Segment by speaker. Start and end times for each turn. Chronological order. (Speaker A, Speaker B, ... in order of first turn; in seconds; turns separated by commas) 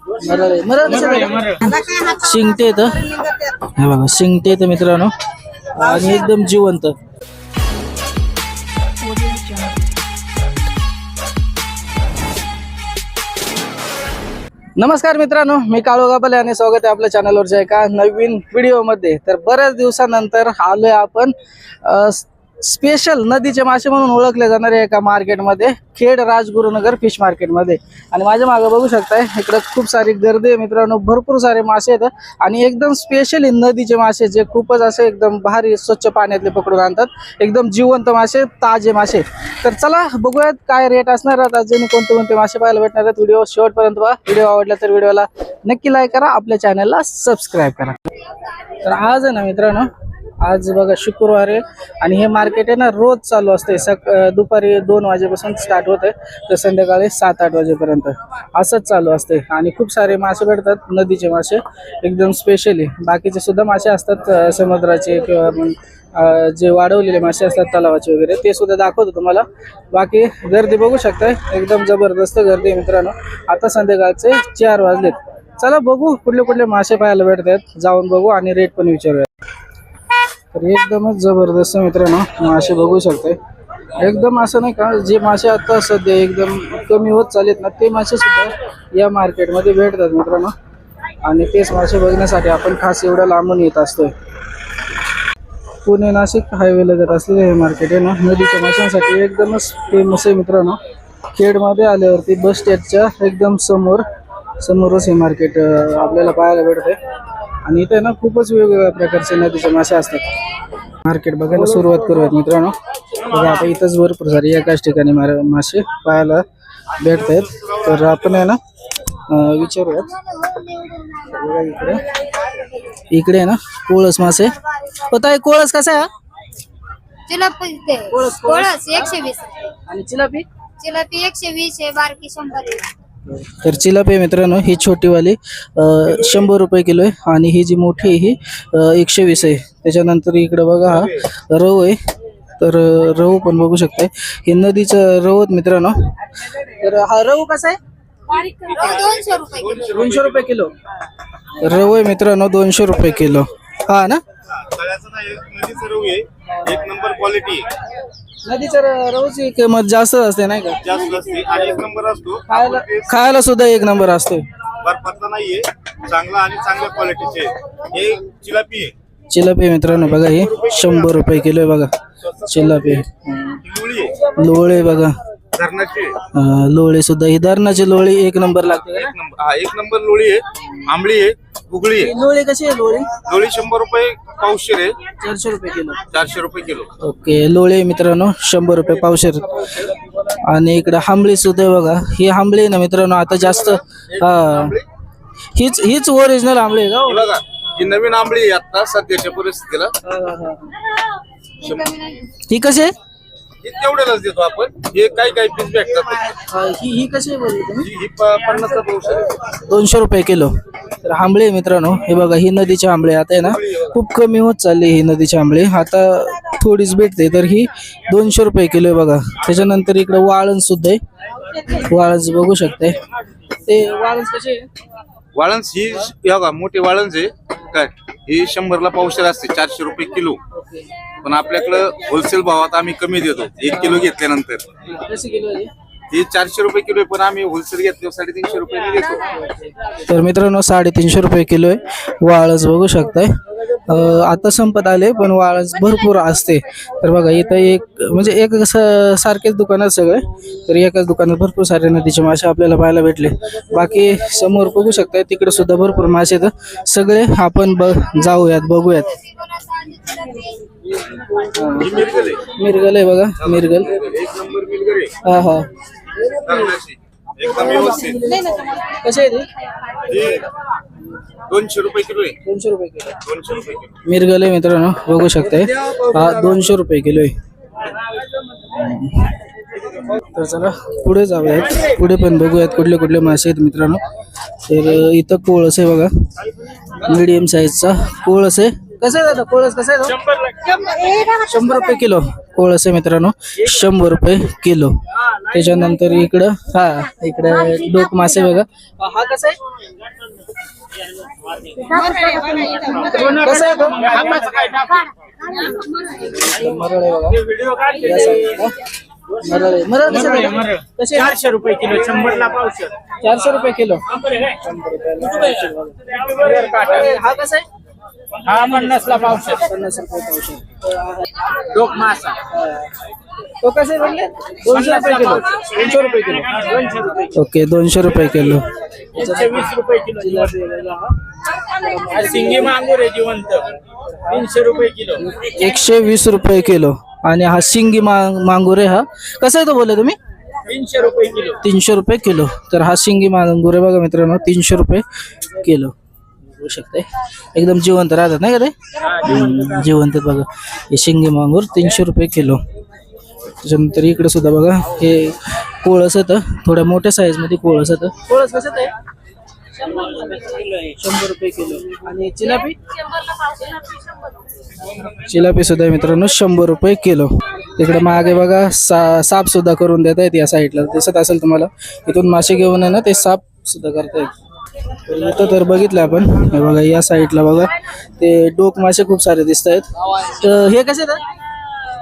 Speaker A: 0.2-5.1, Speaker A: 5.7-6.9, Speaker A: 14.8-48.0, Speaker A: 48.8-79.3, Speaker A: 80.5-83.4, Speaker A: 84.0-90.5, Speaker A: 91.2-94.1, Speaker A: 95.8-100.8, Speaker A: 101.3-104.1, Speaker A: 104.6-107.0, Speaker A: 107.6-110.3, Speaker A: 111.0-116.5, Speaker A: 117.0-118.6, Speaker A: 119.2-120.3, Speaker B: 120.3-121.2, Speaker A: 121.2-122.1, Speaker A: 123.1-126.1, Speaker B: 127.3-129.7, Speaker A: 128.1-129.2, Speaker A: 129.9-130.5, Speaker B: 130.8-132.9, Speaker A: 133.3-142.0, Speaker A: 142.6-146.1, Speaker A: 146.6-147.8, Speaker B: 148.3-149.8, Speaker C: 148.7-150.4, Speaker A: 149.8-150.7, Speaker A: 151.6-154.2, Speaker C: 154.5-157.7, Speaker A: 158.4-160.8, Speaker C: 160.8-163.1, Speaker A: 162.5-164.5, Speaker C: 164.8-168.9, Speaker A: 169.3-173.6, Speaker C: 173.7-174.2, Speaker A: 174.2-175.2, Speaker C: 175.5-176.2, Speaker A: 176.3-179.1, Speaker C: 178.9-182.1, Speaker A: 182.0-183.1, Speaker C: 183.2-185.0, Speaker A: 185.2-186.1, Speaker C: 186.1-186.9, Speaker A: 187.0-194.8, Speaker A: 195.6-197.3, Speaker C: 197.1-199.9, Speaker A: 200.0-200.9, Speaker B: 201.7-202.3, Speaker A: 202.4-202.9, Speaker C: 203.6-206.4, Speaker A: 206.4-207.9, Speaker C: 207.8-209.3, Speaker A: 209.5-221.0, Speaker A: 221.7-223.0, Speaker A: 223.7-224.7, Speaker C: 225.3-230.4, Speaker A: 230.5-230.8, Speaker C: 231.2-234.7, Speaker A: 233.8-234.1, Speaker A: 234.9-235.7, Speaker C: 236.1-239.4, Speaker A: 239.9-243.3, Speaker A: 243.9-259.2, Speaker A: 261.3-264.0, Speaker C: 261.8-262.5, Speaker C: 263.9-265.2, Speaker A: 265.2-265.7, Speaker C: 266.3-268.2, Speaker A: 267.6-269.5, Speaker B: 268.6-268.9, Speaker C: 270.1-270.5, Speaker C: 271.5-272.4, Speaker A: 272.4-273.2, Speaker C: 273.2-274.0, Speaker A: 274.0-277.4, Speaker A: 278.6-279.3, Speaker A: 280.0-284.0, Speaker A: 284.6-286.1, Speaker A: 287.0-290.5, Speaker B: 290.6-291.4, Speaker A: 291.3-299.6, Speaker B: 301.7-303.4, Speaker A: 303.0-304.8, Speaker B: 304.8-306.3, Speaker A: 306.3-308.8, Speaker A: 309.4-312.4, Speaker D: 311.5-312.9, Speaker A: 313.2-317.7, Speaker A: 318.5-322.8, Speaker A: 323.6-331.1, Speaker A: 332.3-332.9, Speaker D: 332.7-333.6, Speaker D: 334.4-335.2, Speaker A: 335.2-340.2, Speaker D: 340.8-341.3, Speaker A: 341.4-345.9, Speaker A: 346.5-352.6, Speaker A: 353.6-358.9, Speaker A: 359.9-362.8, Speaker B: 363.3-363.7, Speaker A: 365.1-374.3, Speaker A: 375.1-381.2